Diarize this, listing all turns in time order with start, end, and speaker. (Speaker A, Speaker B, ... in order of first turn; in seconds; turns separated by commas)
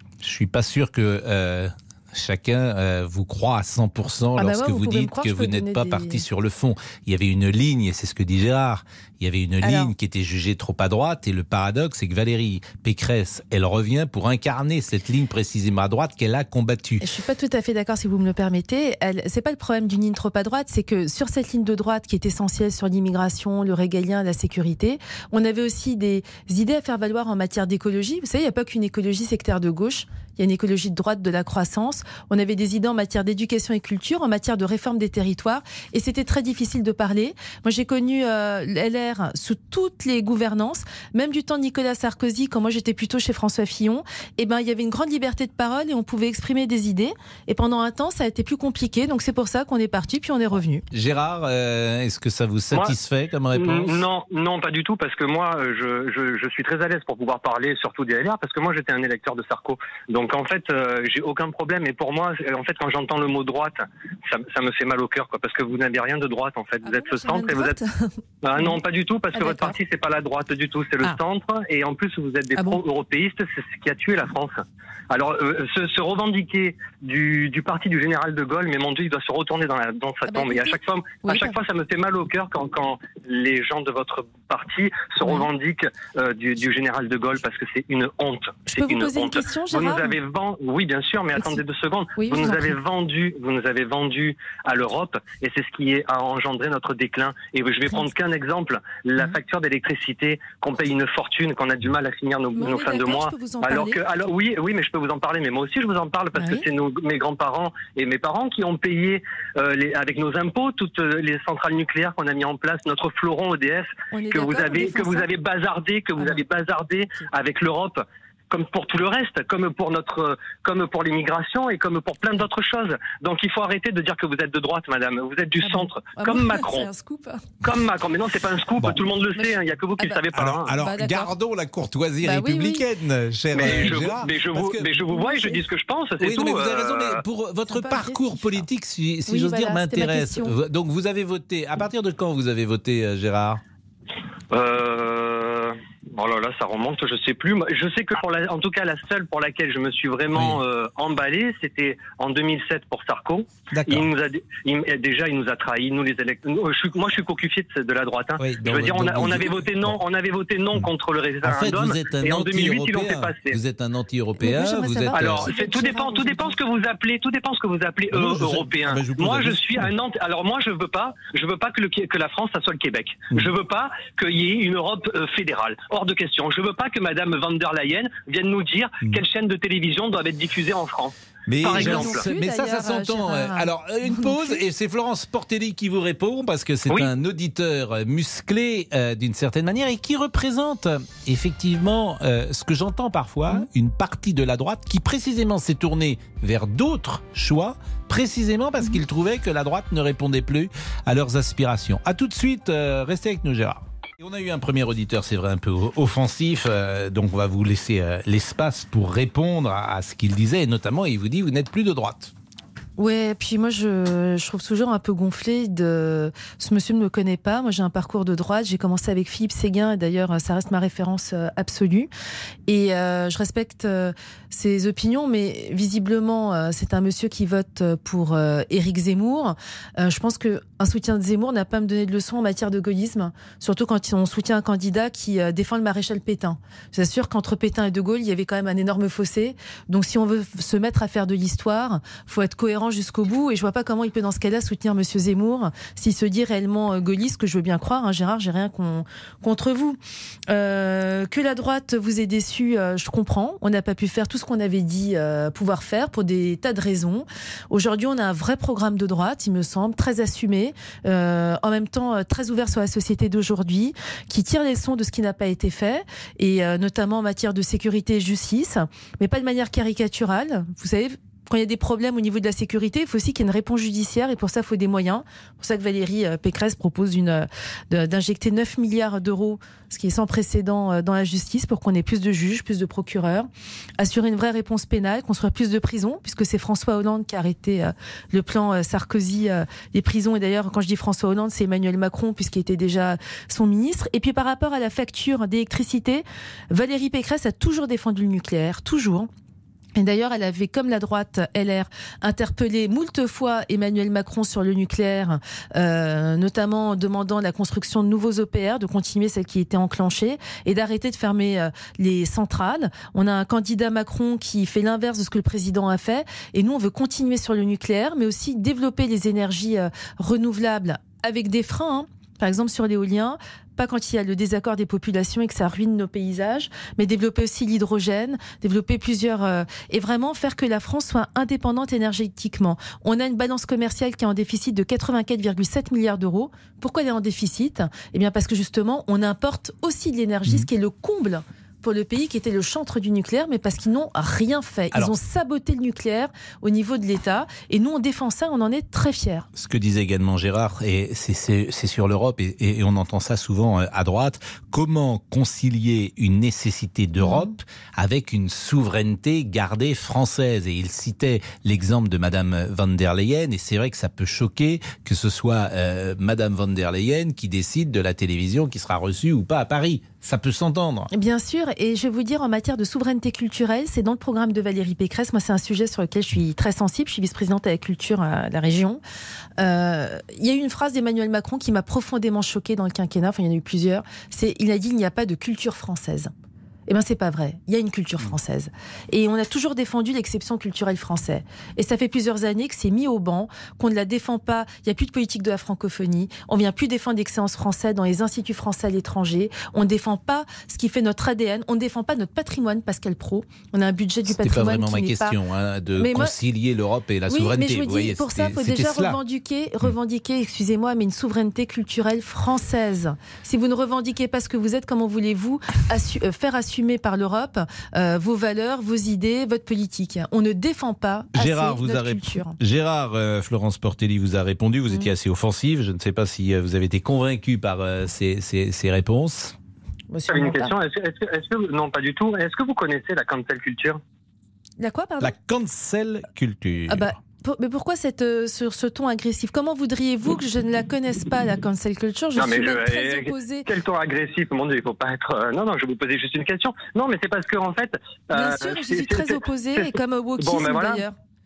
Speaker A: 0.2-17.0, Speaker B: 4.3-6.2, Speaker B: 9.6-9.9, Speaker B: 17.0-50.8, Speaker A: 50.9-54.0, Speaker C: 53.5-67.8, Speaker B: 66.8-68.8, Speaker C: 68.4-126.9, Speaker B: 69.3-69.8, Speaker B: 72.5-72.8, Speaker B: 80.2-81.6, Speaker B: 85.2-85.5, Speaker B: 88.7-90.2, Speaker B: 91.3-91.6, Speaker B: 92.2-92.8, Speaker B: 102.5-104.0, Speaker B: 106.3-106.6, Speaker B: 114.1-115.3, Speaker B: 116.2-116.4, Speaker B: 125.6-127.6, Speaker C: 127.6-130.7, Speaker B: 129.3-131.3, Speaker A: 130.3-135.0, Speaker B: 132.2-132.9, Speaker C: 133.5-137.2, Speaker B: 133.6-134.1, Speaker B: 135.1-135.6, Speaker A: 136.2-143.6, Speaker B: 137.7-138.7, Speaker B: 139.3-140.5, Speaker C: 144.5-163.6, Speaker A: 150.3-150.6, Speaker A: 153.7-154.1, Speaker A: 158.4-160.0, Speaker A: 161.4-165.5, Speaker B: 164.4-166.6, Speaker C: 165.1-182.3, Speaker A: 168.1-169.9, Speaker A: 181.5-212.3, Speaker B: 181.6-184.6, Speaker B: 213.0-222.1, Speaker B: 222.7-250.0, Speaker B: 250.5-283.5, Speaker B: 284.0-299.3, Speaker B: 299.9-349.5, Speaker A: 349.6-371.1, Speaker B: 357.2-357.5, Speaker B: 371.1-379.0, Speaker B: 379.6-386.3, Speaker B: 386.9-405.4, Speaker A: 404.3-409.2, Speaker B: 406.0-406.4, Speaker B: 407.3-422.6, Speaker A: 421.3-429.6, Speaker B: 430.1-430.7, Speaker C: 430.3-434.0, Speaker B: 434.8-435.3, Speaker A: 435.2-437.1, Speaker B: 436.9-443.6, Speaker C: 442.4-451.0, Speaker B: 448.3-451.1